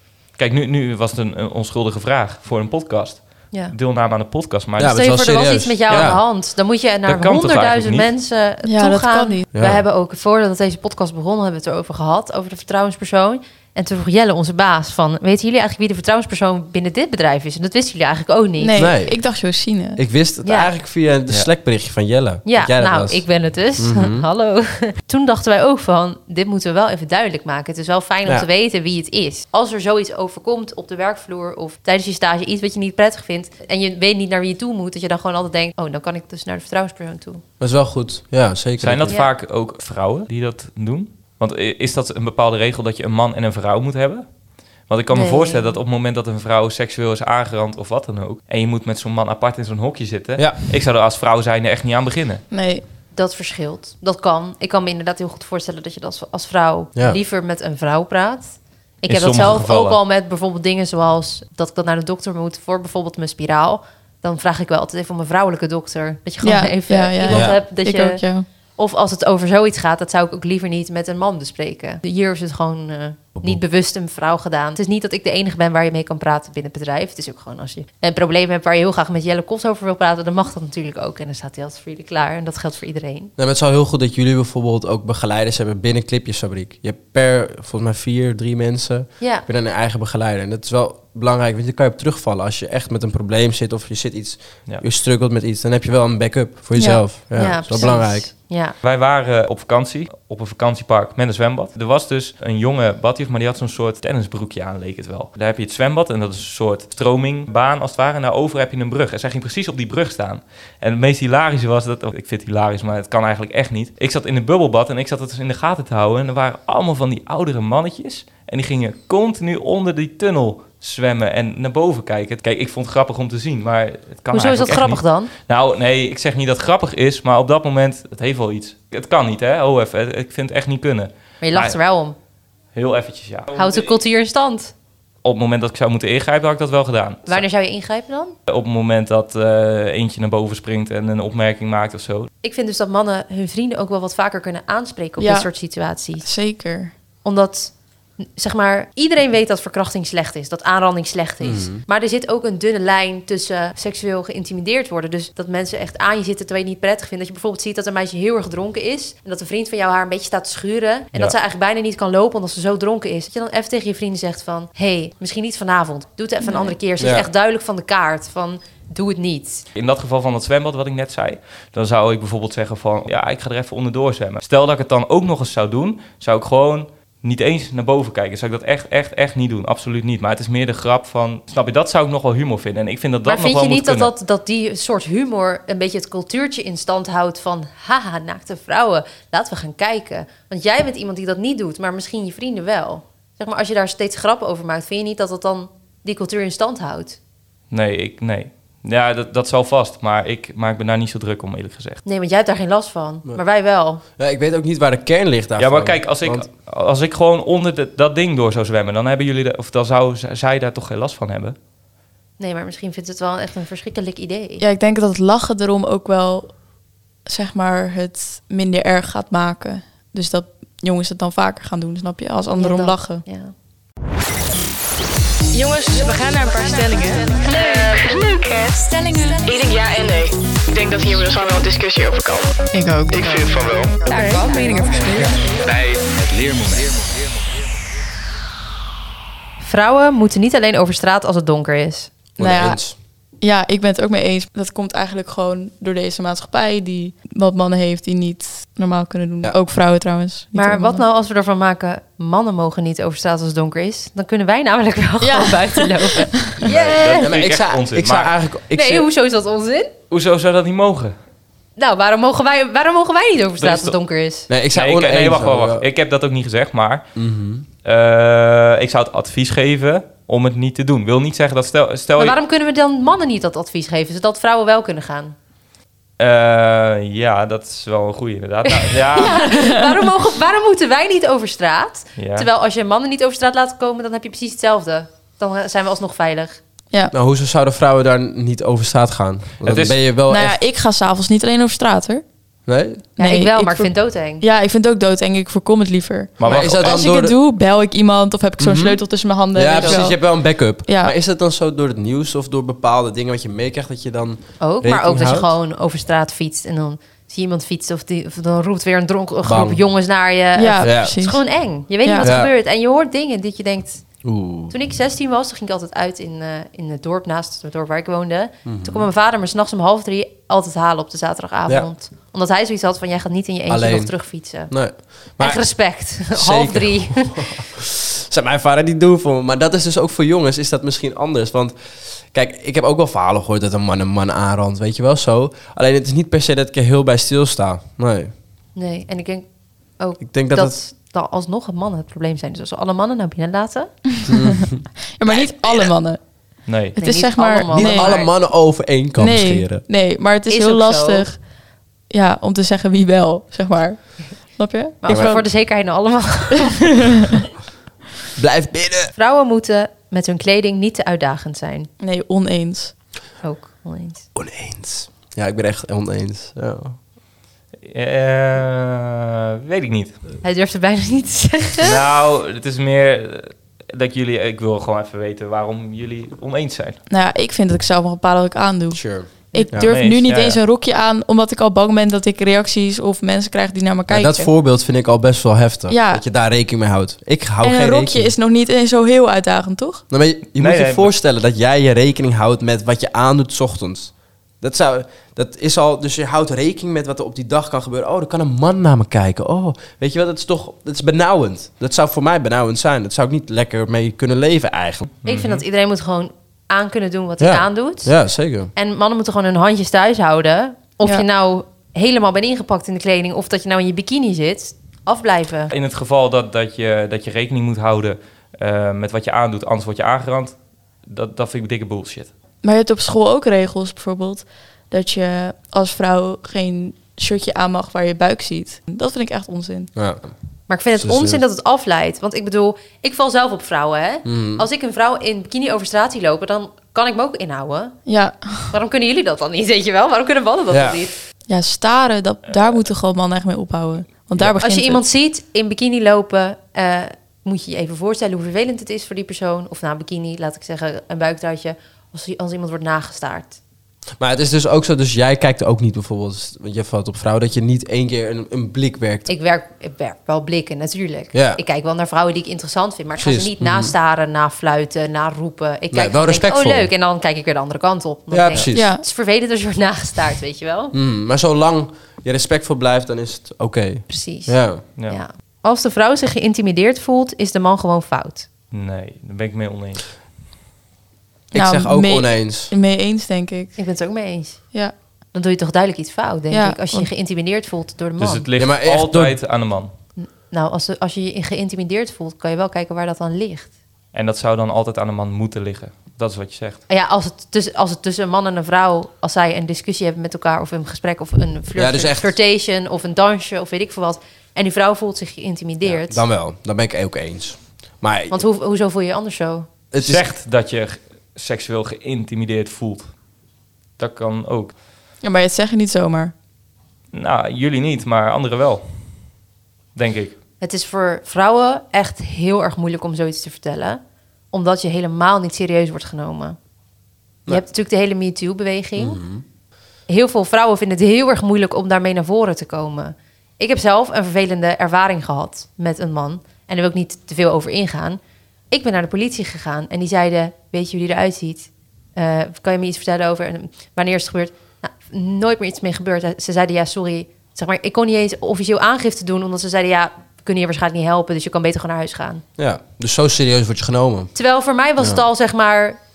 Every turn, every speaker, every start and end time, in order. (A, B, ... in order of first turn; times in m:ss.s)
0:00.3-0:05.1 A
0:04.8-0:06.2 B
0:04.9-0:18.9 C
0:05.9-0:06.2 A
0:07.1-0:08.1 A
0:08.6-0:09.4 D
0:09.5-0:09.8 B
0:18.6-0:20.0 D
0:18.8-0:19.2 B
0:20.0-0:23.2 B
0:20.4-0:20.7 C
0:22.4-0:37.4 C
0:23.8-0:24.2 B
0:37.6-0:39.2 B
0:38.8-0:44.2 A
0:44.9-0:52.4 A
0:45.1-0:45.8 C
0:52.5-0:52.8 D
0:53.1-1:08.2 C
0:59.0-1:00.0 A
1:06.4-1:08.4 D
1:07.2-1:07.6 B
1:08.8-1:23.3 C
1:23.4-1:38.3 B
1:29.2-1:29.4 C
1:36.8-1:37.0 D
1:37.3-1:38.8 C
1:38.8-2:11.8 A
2:04.3-2:05.3 C
2:11.4-2:12.1 C
2:12.7-2:13.9 A
2:13.6-2:14.7 C
2:15.2-2:17.4 A
2:17.3-2:18.3 C
2:18.5-2:22.3 A
2:22.4-2:26.3 C
2:25.2-2:25.5 D
2:26.2-2:26.9 D
2:27.2-2:49.6 C
2:31.4-2:31.8 B
2:46.4-2:46.7 D
2:47.0-2:47.3 B
2:49.7-3:04.1 A
3:03.2-3:17.2 C
3:17.7-3:22.0 A
3:22.0-3:24.0 C
3:24.2-3:26.4 B
3:25.6-3:31.6 A
3:32.4-3:34.6 C
3:34.6-3:36.5 D
3:37.2-3:43.2 D
3:42.6-3:43.5 C
3:45.5-3:55.4 E
3:53.1-3:55.1 C
3:55.1-3:57.6 F
3:59.6-4:02.1 C
4:02.4-4:02.9 B
4:02.4-4:02.8 D
4:03.4-4:11.0 D
4:10.5-4:17.3 C
4:15.2-4:16.2 D
4:16.6-4:18.3 A
4:16.7-4:19.1 B
4:18.7-4:19.9 C
4:20.1-4:21.2 A
4:21.8-4:24.5 C
4:23.6-4:24.0 A
4:24.5-4:25.8 B
4:24.7-4:27.1 A
4:27.1-4:27.6 B
4:27.8-4:32.4 A
4:32.2-4:35.3 C
4:36.2-4:39.5 A
4:38.7-4:46.6 C
4:42.2-4:42.5 A
4:47.1-4:50.6 B
4:49.6-4:50.0 A
4:50.3-4:52.2 D
4:52.7-4:53.0 B
4:53.2-5:01.1 D
4:53.2-4:54.4 C
4:56.4-4:57.0 A
4:56.5-4:57.4 B
4:58.6-5:05.5 B
4:59.7-5:00.1 C
5:04.6-5:14.0 C
5:09.4-5:09.8 B
5:10.5-5:11.4 D
5:10.8-5:11.2 B
5:12.0-5:12.3 D
5:12.2-5:12.5 B
5:14.2-5:14.7 B
5:14.7-5:27.5 C
5:18.6-5:19.1 B
5:23.7-5:24.1 B
5:24.7-5:25.6 B
5:26.3-5:38.3 B
5:38.8-5:39.4 C
5:40.0-5:43.9 C
5:40.2-5:40.8 B
5:44.3-5:44.8 B
5:45.2-5:46.2 D
5:46.6-5:47.0 A
5:47.0-5:48.2 D
5:47.0-5:48.3 C
5:47.6-5:49.8 B
5:49.2-5:51.4 D
5:50.5-5:51.3 C
5:52.1-5:55.4 D
5:55.0-5:57.3 C
5:55.1-5:55.4 B
5:57.0-5:57.3 D
5:58.4-5:59.1 B
5:59.1-6:01.9 C
6:02.0-6:02.9 D
6:03.4-6:04.2 C
6:04.3-6:07.0 B
6:07.8-6:10.2 A
6:10.4-6:12.0 C
6:11.8-6:17.0 A
6:17.1-6:24.5 D
6:18.9-6:19.9 B
6:19.8-6:20.6 A
6:24.1-6:28.3 B
6:25.9-6:26.2 D
6:27.6-6:30.0 D
6:30.1-6:45.1 B
6:30.5-6:31.1 A
6:45.2-6:45.6 A
6:45.2-6:48.1 C
6:47.4-6:48.7 B
6:48.8-6:55.7 C
6:55.7-7:02.3 A
7:02.6-7:09.9 D
7:10.0-7:10.3 B
7:10.7-7:18.0 C
7:10.9-7:11.4 B
7:14.2-7:14.6 B
7:18.1-7:18.7 D
7:18.7-7:21.2 C
7:20.7-7:21.0 B
7:21.5-7:25.0 D
7:24.6-7:33.6 C
7:34.2-7:39.3 B
7:39.3-7:50.9 C
7:41.3-7:41.6 B
7:43.2-7:43.9 B
7:45.9-7:46.9 B
7:48.3-7:48.9 B
7:48.7-7:49.0 D
7:50.9-7:54.8 B
7:54.1-7:58.5 C
7:58.7-8:00.0 A
8:01.5-8:02.7 B
8:01.5-8:03.8 D
8:03.8-8:04.7 C
8:05.3-8:08.4 C
8:06.5-8:07.1 D
8:08.2-8:09.9 A
8:08.6-8:09.4 B
8:10.2-8:13.7 C
8:14.1-8:16.8 A
8:16.9-8:26.2 C
8:21.7-8:22.3 B
8:25.8-8:28.4 B
8:28.3-8:29.7 C
8:29.9-8:30.3 B
8:30.0-8:33.1 A
8:34.0-8:34.7 A
8:35.2-8:36.3 D
8:37.1-8:39.1 A
8:39.9-8:40.4 A
8:40.6-8:44.0 C
8:44.5-8:46.6 C
8:47.5-8:49.2 C
8:49.0-8:49.4 B
8:50.1-8:58.2 C
8:58.7-9:12.4 C
9:12.6-9:14.3 B
9:14.3-9:16.0 C